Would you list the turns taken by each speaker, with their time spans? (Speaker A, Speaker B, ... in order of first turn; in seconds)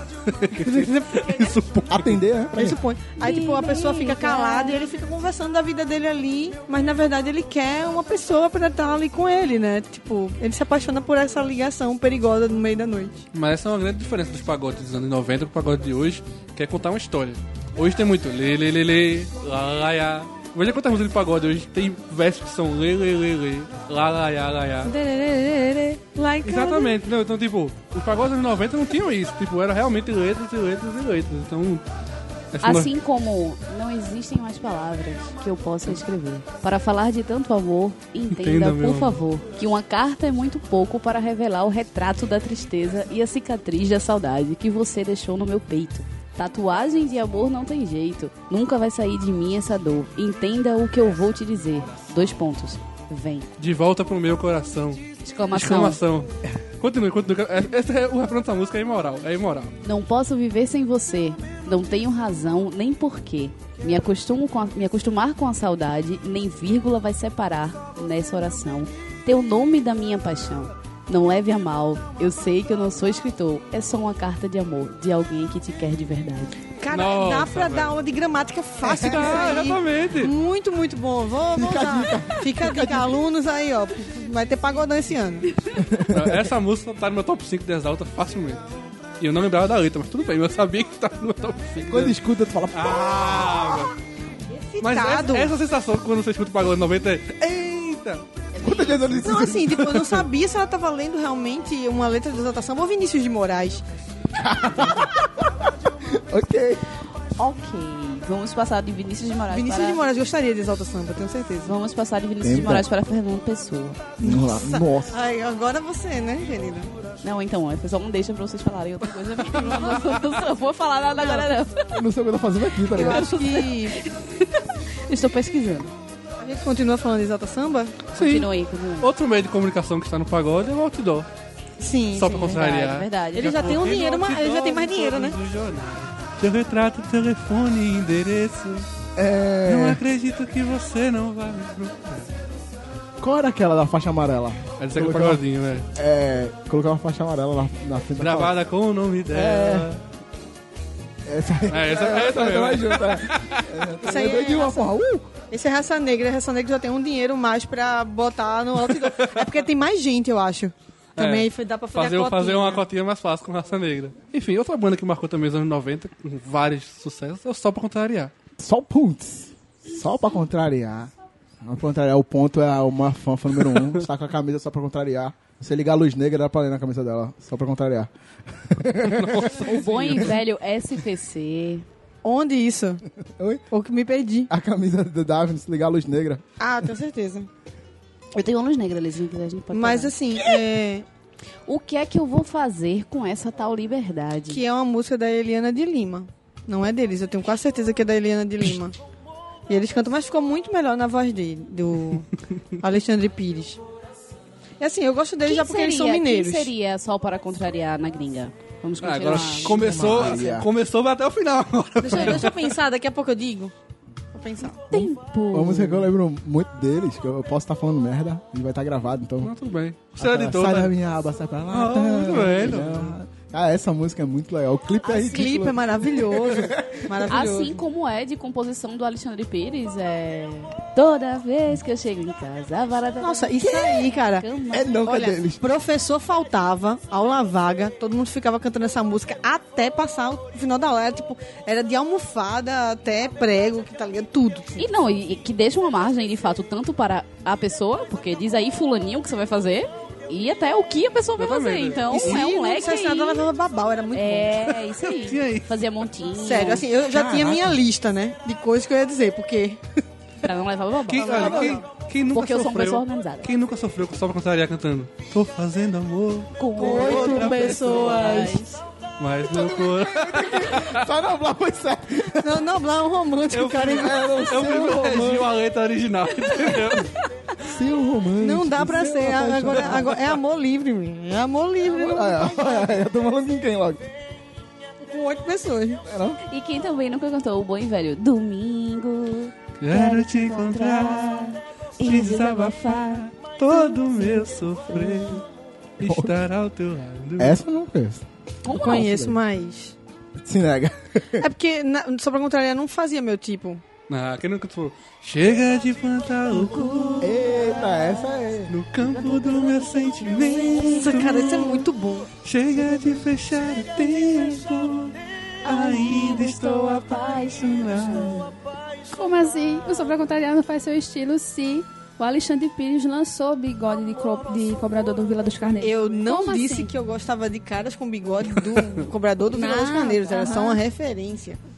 Speaker A: 0.4-2.2, 13.3-24.9, 26.4-31.8, 32.5-32.9, 38.3-39.2, 53.6-59.7, 76.9-77.9, 78.8-80.3, 86.0-88.7, 89.2-92.1, 92.7-93.9, 94.8-98.2, 128.2-128.5, 129.0-131.3, 132.2-138.9, 139.7-142.3, 144.8-145.9, 148.2-150.0, 151.7-153.9, 158.8-159.4, 161.2-168.3, 179.0-180.4, 209.0-212.7, 219.4-220.9, 221.7-223.2, 251.4-252.5, 255.1-255.7, 261.1-268.5, 269.2-271.0, 273.5-277.1, 289.8-295.4, 296.0-297.6, 304.1-307.4, 308.7-311.9, 312.4-318.5
Speaker B: 0.5-1.5, 2.5-13.2, 24.9-26.9, 76.8-85.5, 94.5-95.5, 99.2-103.8, 109.5-111.7, 114.2-116.9, 121.2-121.5, 122.9-124.0, 126.4-128.1, 131.8-132.6, 133.3-135.4, 154.0-154.9, 155.5-162.8, 182.2-183.0, 183.7-184.5, 186.6-187.5, 189.7-191.1, 194.5-198.9, 199.7-202.3, 202.8-203.8, 204.8-206.7, 212.0-213.7, 214.3-214.8, 225.0-227.8, 233.2-234.5, 235.0-244.9, 252.1-254.8, 256.3-259.8, 261.3-261.7, 266.8-268.8, 272.4-274.2, 278.4-282.9, 285.0-286.0, 298.7-299.9, 301.4-303.8, 310.9-312.3, 325.8-331.6
Speaker C: 1.9-2.8, 81.5-83.2, 85.8-86.5, 91.8-93.5, 98.6-100.3, 104.3-106.9, 112.4-112.9, 114.2-115.2, 121.9-123.3, 139.2-140.0, 143.2-145.4, 145.9-148.5, 149.3-150.0, 151.2-155.3, 168.6-180.3, 183.2-183.6, 184.5-186.4, 209.5-210.7, 214.9-219.5, 220.2-227.4, 234.7-235.6, 257.1-257.8, 261.3-261.8, 269.4-272.6, 273.9-275.5, 277.6-280.2, 281.8-284.0, 286.0-286.4, 296.0-296.3, 297.4-299.4, 300.4-301.4, 307.2-308.7
Speaker D: 3.2-4.8, 32.6-53.5, 55.2-56.0, 59.8-76.6, 98.5-99.2, 107.4-110.0, 111.6-114.0, 117.2-121.9, 123.0-125.9, 128.1-129.1, 132.4-133.7, 179.5-181.8, 188.3-190.1, 191.7-194.6, 205.4-210.3, 214.9-216.1, 227.3-235.1, 244.8-253.5, 254.1-256.9, 260.4-261.8, 262.3-263.5, 266.6-268.6, 286.5-295.4, 298.7-299.0, 306.5-308.4, 309.0-311.5, 315.6-318.5
Speaker E: 319.1-326.9, 329.5-330.8